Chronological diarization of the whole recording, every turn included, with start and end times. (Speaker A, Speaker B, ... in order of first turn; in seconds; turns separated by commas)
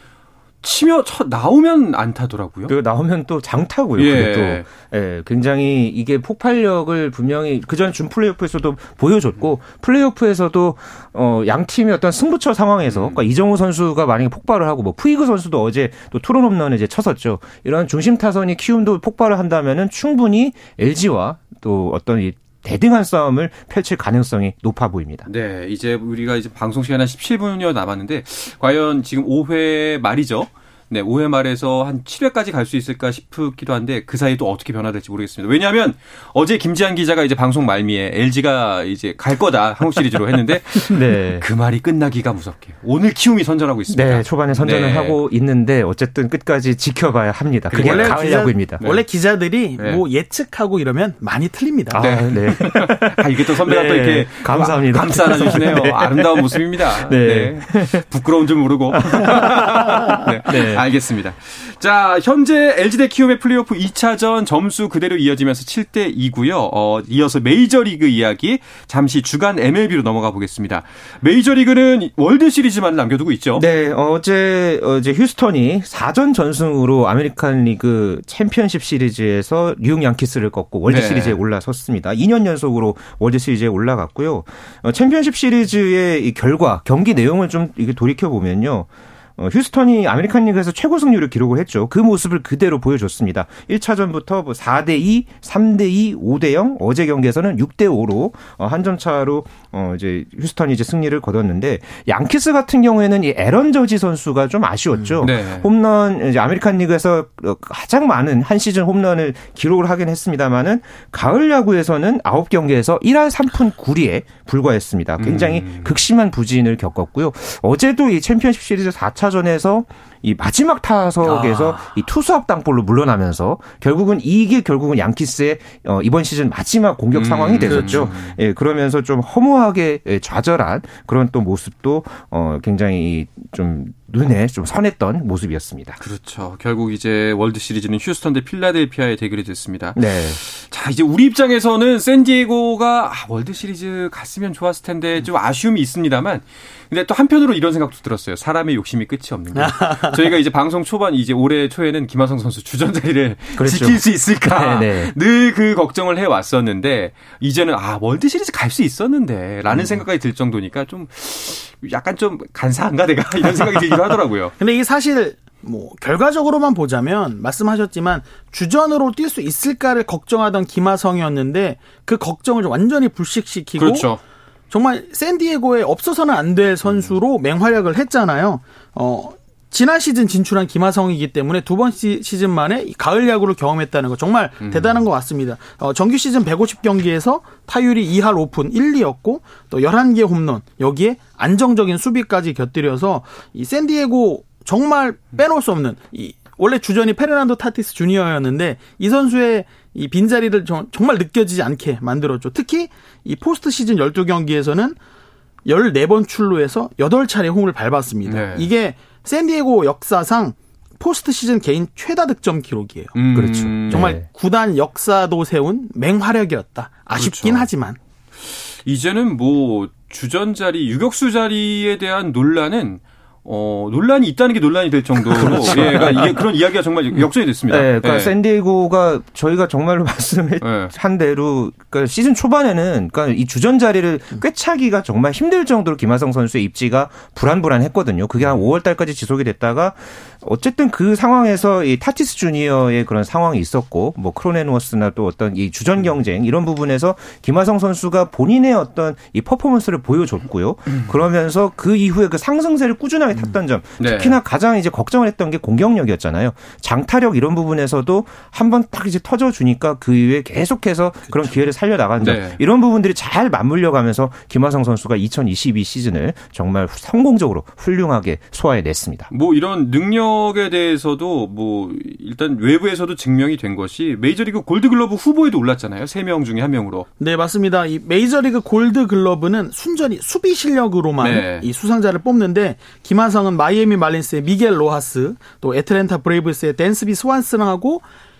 Speaker A: 0.6-2.7, Speaker B: 2.7-25.3, Speaker A: 4.0-4.7, Speaker A: 12.9-13.2, Speaker A: 25.2-45.2, Speaker B: 40.8-41.4, Speaker B: 43.9-48.8, Speaker A: 47.7-49.0, Speaker C: 47.7-52.0, Speaker A: 49.8-50.0, Speaker B: 51.9-58.0, Speaker A: 52.0-73.6, Speaker B: 59.0-60.9, Speaker B: 73.5-136.0, Speaker A: 80.9-81.4, Speaker A: 105.2-105.7, Speaker A: 115.2-116.0, Speaker C: 121.2-121.9, Speaker A: 127.1-128.4, Speaker C: 127.7-128.0, Speaker A: 136.0-164.5, Speaker B: 139.9-140.4, Speaker C: 149.5-150.2, Speaker B: 153.6-155.1, Speaker B: 159.7-160.0, Speaker C: 164.6-174.1, Speaker A: 173.8-174.2, Speaker C: 174.7-205.0, Speaker A: 184.6-185.0, Speaker C: 205.6-213.1, Speaker A: 208.2-208.7, Speaker A: 213.1-214.2, Speaker B: 213.3-214.2, Speaker C: 213.9-218.0, Speaker A: 217.1-217.7, Speaker A: 218.4-228.3, Speaker B: 225.3-226.4, Speaker B: 227.7-269.3, Speaker A: 230.6-230.9, Speaker A: 254.0-254.4, Speaker A: 262.2-262.6, Speaker A: 269.3-277.1, Speaker C: 277.2-288.0, Speaker A: 281.2-281.7